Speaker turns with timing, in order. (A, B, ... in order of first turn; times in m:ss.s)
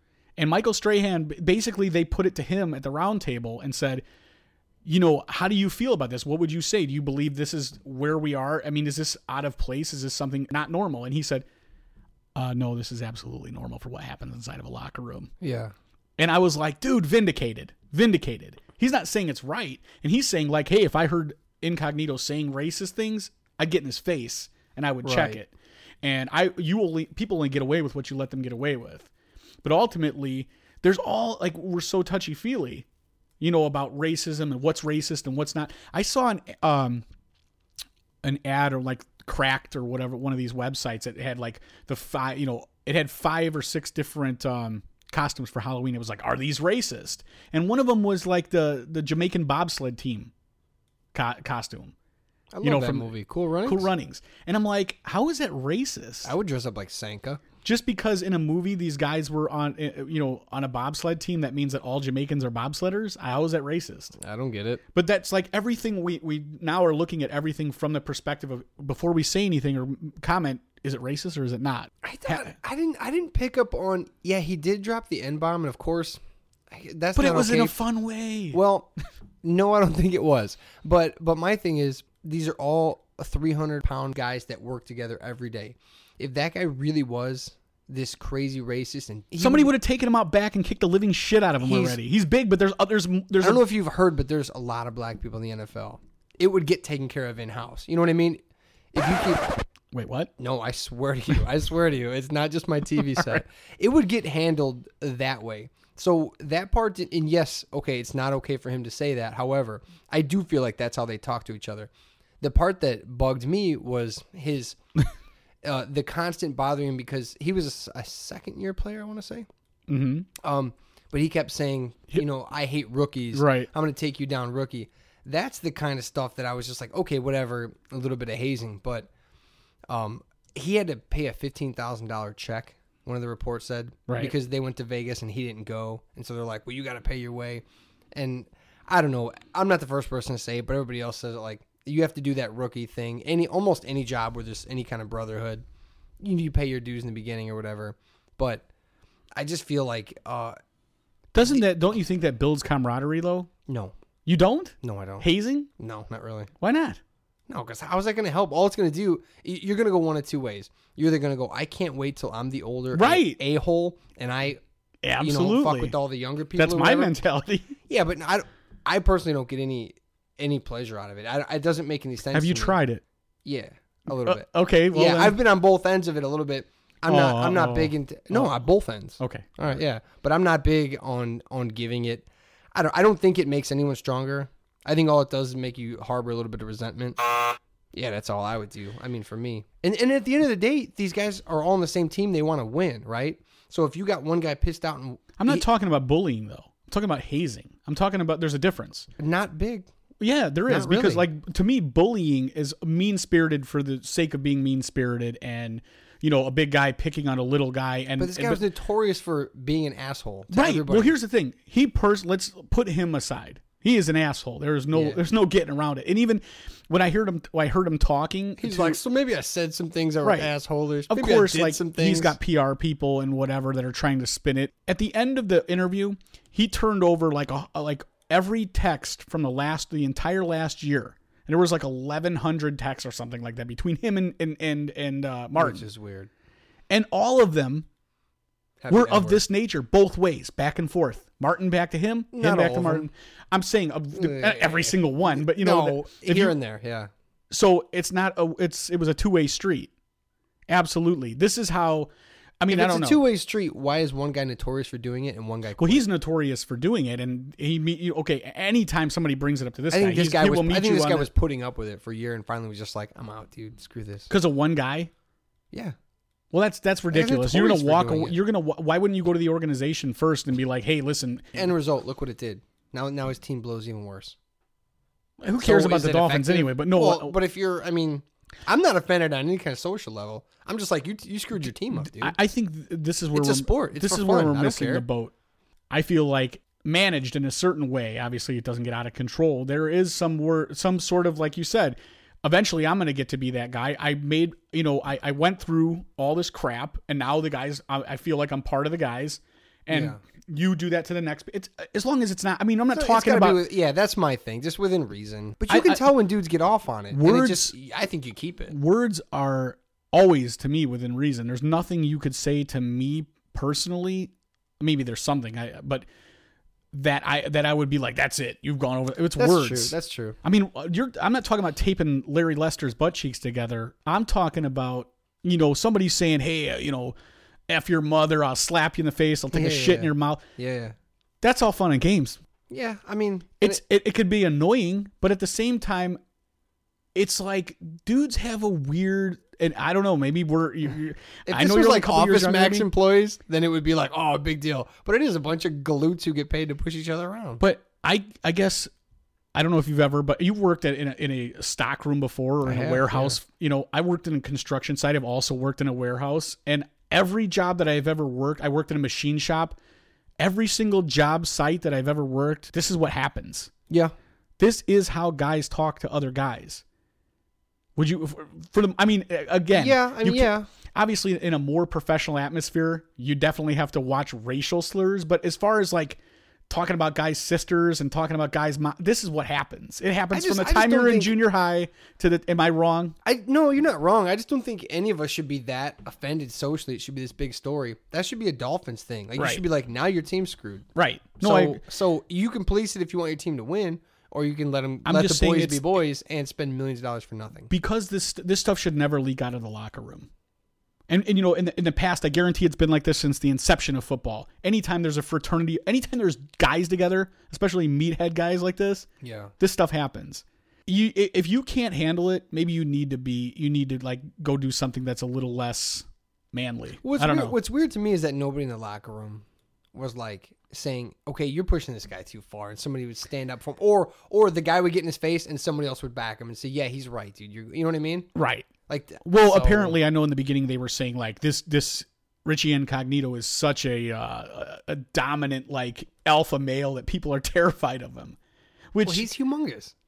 0:00.4-0:04.0 A
0:04.8-0:11.4 A
0:12.3-0:15.3 A
0:15.4-0:15.7 B
0:16.2-0:29.1 A
0:25.0-0:25.4 B
0:29.6-0:32.8 A
0:33.4-0:37.0 A
0:38.2-0:50.3 A
0:51.1-0:51.9 A
0:52.5-0:53.9 B
0:52.6-0:53.1 A
0:53.6-0:56.3 A
0:56.2-0:57.4 B
0:57.6-1:04.1 A
1:04.2-1:04.8 B
1:04.9-1:12.5 A
1:12.0-1:17.8 B
1:17.1-1:18.6 A
1:18.5-1:18.9 B
1:19.4-1:29.7 B
1:29.4-1:33.6 A
1:31.6-1:32.0 B
1:33.4-1:39.6 B
1:39.9-1:40.3 A
1:40.4-1:54.8 B
1:43.1-1:43.4 A
1:55.6-1:59.5 B
1:59.9-2:00.3 A
2:00.4-2:09.1 B
2:03.3-2:03.7 A
2:09.9-2:25.6 B
2:14.1-2:14.3 A
2:26.2-2:28.6 B
2:29.3-2:30.6 B
2:31.3-2:33.5 A
2:33.7-2:33.9 B
2:34.2-2:35.7 A
2:34.8-2:36.5 B
2:36.6-2:37.0 A
2:37.5-2:44.6 B
2:42.9-2:43.4 A
2:45.0-2:46.0 A
2:45.2-2:47.2 B
2:46.6-2:47.8 A
2:47.9-2:52.8 B
2:52.3-2:53.0 A
2:53.4-3:07.2 B
2:54.2-2:55.4 A
2:57.1-2:58.6 A
2:59.2-2:59.5 A
3:07.9-3:15.6 B
3:15.4-3:19.1 A
3:19.2-3:19.9 B
3:20.2-3:28.6 A
3:20.7-3:21.3 B
3:28.2-3:31.1 B
3:30.5-3:39.0 A
3:34.9-3:35.2 B
3:38.6-3:42.4 B
3:40.2-3:40.5 A
3:41.1-3:55.8 A
3:55.6-3:56.3 B
3:56.9-3:57.8 A
3:58.8-3:59.4 B
3:58.9-4:06.5 A
4:02.3-4:03.1 B
4:04.1-4:07.1 B
4:07.5-4:09.9 A
4:10.7-4:13.2 A
4:12.7-4:16.0 B
4:15.8-4:21.3 A
4:19.9-4:24.3 B
4:24.3-4:25.1 A
4:26.5-4:31.7 A
4:27.1-4:28.4 B
4:31.5-4:34.4 B
4:35.4-4:37.4 A
4:35.6-4:42.4 B
4:41.9-4:45.3 A
4:43.3-4:45.0 B
4:45.9-5:03.6 A
4:59.9-5:00.2 B
5:02.9-5:08.8 B
5:05.7-5:06.1 A
5:07.1-5:07.7 A
5:08.7-5:16.1 A
5:16.9-5:27.2 A
5:19.4-5:20.4 B
5:27.7-5:30.4 A
5:29.5-5:31.0 B
5:31.4-5:32.4 A
5:32.7-5:33.8 B
5:33.6-5:36.2 A
5:37.1-5:42.9 A
5:41.4-5:47.6 B
5:47.6-5:48.9 A
5:49.5-5:59.8 A
5:52.6-5:53.4 B
6:00.4-6:03.7 A
6:04.6-6:06.8 A
6:08.0-6:23.2 A
6:09.7-6:10.7 B
6:20.3-6:21.4 B
6:23.2-6:30.9 B
6:29.4-6:29.6 A
6:31.0-6:31.8 A
6:31.4-6:37.7 B
6:35.0-6:35.8 A
6:37.7-6:40.3 A
6:41.1-6:49.1 A
6:49.2-6:49.5 B
6:49.6-6:57.6 A
6:57.0-7:08.3 B
7:08.3-7:08.7 A
7:08.9-7:10.0 B
7:09.2-7:18.4 A
7:18.9-7:19.3 A
7:19.0-7:19.9 B